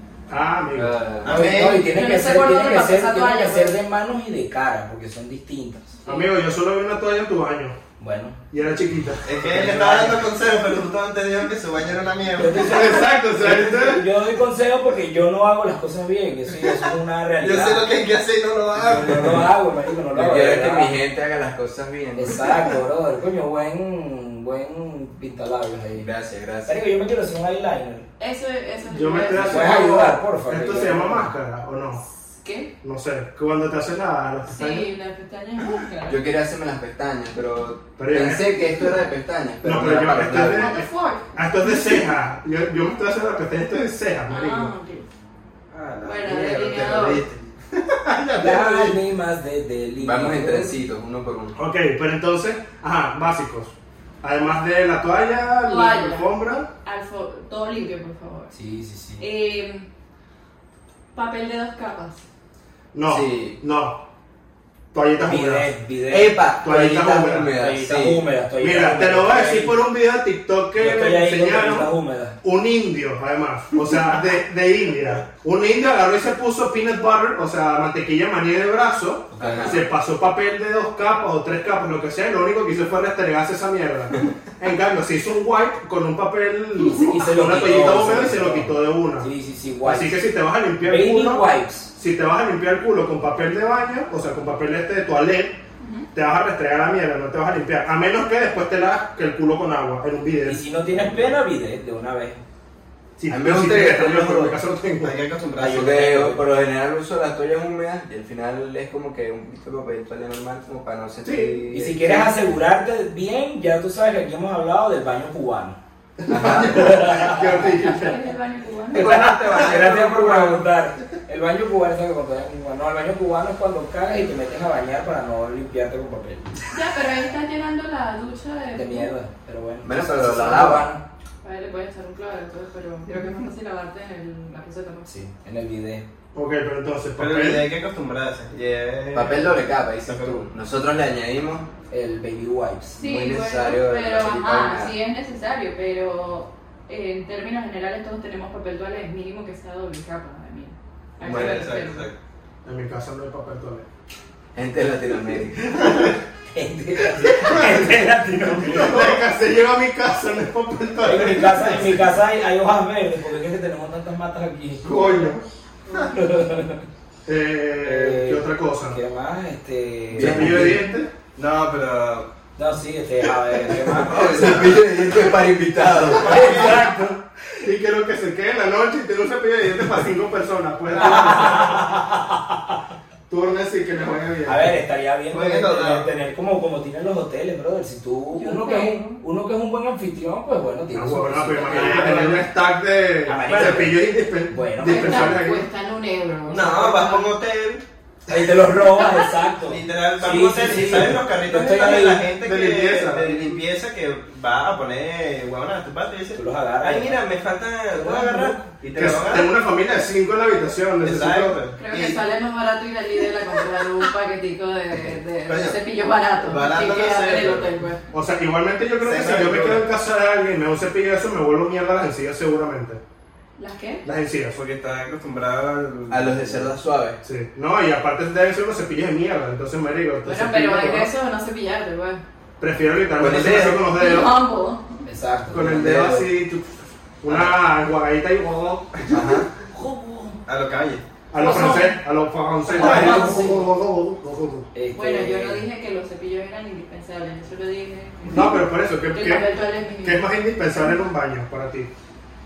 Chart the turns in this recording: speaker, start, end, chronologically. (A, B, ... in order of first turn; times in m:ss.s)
0:00.3-0:00.9 A
0:00.7-0:01.4 B
0:01.2-0:06.0 C
0:01.2-0:01.8 D
0:01.6-0:03.8 E
0:06.0-0:06.3 E
0:06.0-0:07.8 A
0:08.0-0:08.4 C
0:08.5-0:10.2 A
0:09.2-0:13.1 D
0:12.4-0:17.8 C
0:12.6-0:14.0 A
0:17.4-0:19.5 D
0:18.8-0:21.0 C
0:20.1-0:22.8 B
0:22.1-0:26.1 C
0:26.0-0:26.8 B
0:26.6-0:28.0 C
0:28.2-0:29.9 E
0:28.9-0:32.0 A
0:29.4-0:31.3 C
0:32.3-0:32.7 E
0:32.8-0:34.9 A
0:34.4-0:36.2 E
0:36.1-0:40.7 B
0:38.0-0:38.9 A
0:39.6-0:44.7 A
0:40.4-0:42.0 E
0:44.3-0:45.1 E
0:45.7-0:49.0 D
0:46.0-0:47.2 E
0:48.4-0:50.8 C
0:50.0-0:51.6 B
0:51.6-0:56.7 A
0:55.6-0:58.5 E
0:58.5-0:59.3 C
0:59.2-0:59.8 E
1:01.1-1:02.2 E
1:02.9-1:04.0 A
1:03.0-1:03.6 B
1:04.9-1:05.7 A
1:05.2-1:06.4 C
1:06.1-1:08.2 B
1:06.6-1:07.5 A
1:07.5-1:09.8 C
1:08.6-1:11.9 A
1:10.8-1:12.4 C
1:12.4-1:29.3 A
1:19.3-1:19.8 C
1:19.4-1:19.8 B
1:26.8-1:30.2 C
1:29.8-1:35.6 A
1:30.8-1:31.9 C
1:35.8-1:36.1 E
1:36.1-1:40.6 A
1:40.4-1:42.4 C
1:43.2-1:45.2 A
1:43.3-1:44.6 B
1:45.0-1:46.1 D
1:45.6-1:46.4 C
1:45.6-1:52.4 B
1:51.2-1:51.6 A
1:51.7-1:55.8 C
1:56.2-1:58.2 A
1:56.3-1:56.9 B
1:56.4-1:57.7 C
1:57.6-1:59.2 E
1:58.9-2:06.6 C
1:59.0-2:00.6 A
1:59.0-2:00.0 B
2:06.7-2:09.1 E
2:08.7-2:11.0 C
2:09.8-2:10.9 B
2:11.4-2:15.1 E
2:15.0-2:16.0 C
2:16.3-2:17.6 A
2:17.2-2:20.5 D
2:19.1-2:21.7 B
2:21.9-2:23.0 C
2:23.0-2:32.1 E
2:23.0-2:24.9 B
2:31.2-2:32.1 D
2:32.6-2:33.8 A
2:34.5-2:35.9 B
2:35.8-2:36.1 A
2:36.5-2:39.2 C
2:37.2-2:37.9 A
2:38.6-2:42.1 A
2:41.0-2:45.3 C
2:44.8-2:45.4 A
2:45.9-2:46.2 E
2:46.1-2:46.8 C
2:47.2-2:49.0 A
2:47.8-2:50.8 C
2:50.1-2:50.9 B
2:50.2-2:51.1 A
2:51.4-2:52.3 D
2:52.6-2:54.6 C
2:53.8-2:56.5 B
2:55.8-2:56.8 D
2:56.2-3:02.0 A
2:56.2-2:56.9 C
3:01.0-3:02.2 C
3:03.3-3:04.7 A
3:04.4-3:12.5 C
3:05.3-3:06.0 D
3:08.3-3:09.2 E
3:10.9-3:15.6 A
3:11.7-3:12.3 D
3:13.2-3:15.4 C
3:14.8-3:17.3 E
3:16.5-3:17.8 D
3:18.3-3:22.2 C
3:19.0-3:19.3 E
3:19.6-3:29.5 D
3:22.4-3:23.6 A
3:26.3-3:27.2 C
3:27.9-3:28.7 C
3:28.9-3:31.6 A
3:31.0-3:32.2 D
3:31.8-3:38.0 E
3:35.5-3:35.8 D
3:36.4-3:37.7 D
3:38.1-3:43.0 A
3:39.0-3:39.8 D
3:43.6-3:44.0 E
3:44.0-3:44.6 A
3:44.5-3:46.7 D
3:46.1-3:47.2 B
3:47.2-3:51.1 A
3:50.2-3:52.2 E
3:52.6-3:54.3 A
3:53.2-3:53.9 B
3:53.9-3:55.0 E
3:55.0-3:55.9 C
3:55.5-3:56.7 A
3:55.6-3:56.3 B
3:57.2-3:59.4 A
3:59.1-3:59.5 B
3:59.7-4:00.4 C
4:00.4-4:01.0 D
4:01.3-4:04.7 A
4:01.4-4:02.0 E
4:02.6-4:03.6 E
4:02.7-4:03.6 C
4:04.7-4:05.7 C
4:04.9-4:10.2 E
4:08.3-4:09.5 A
4:10.0-4:11.9 A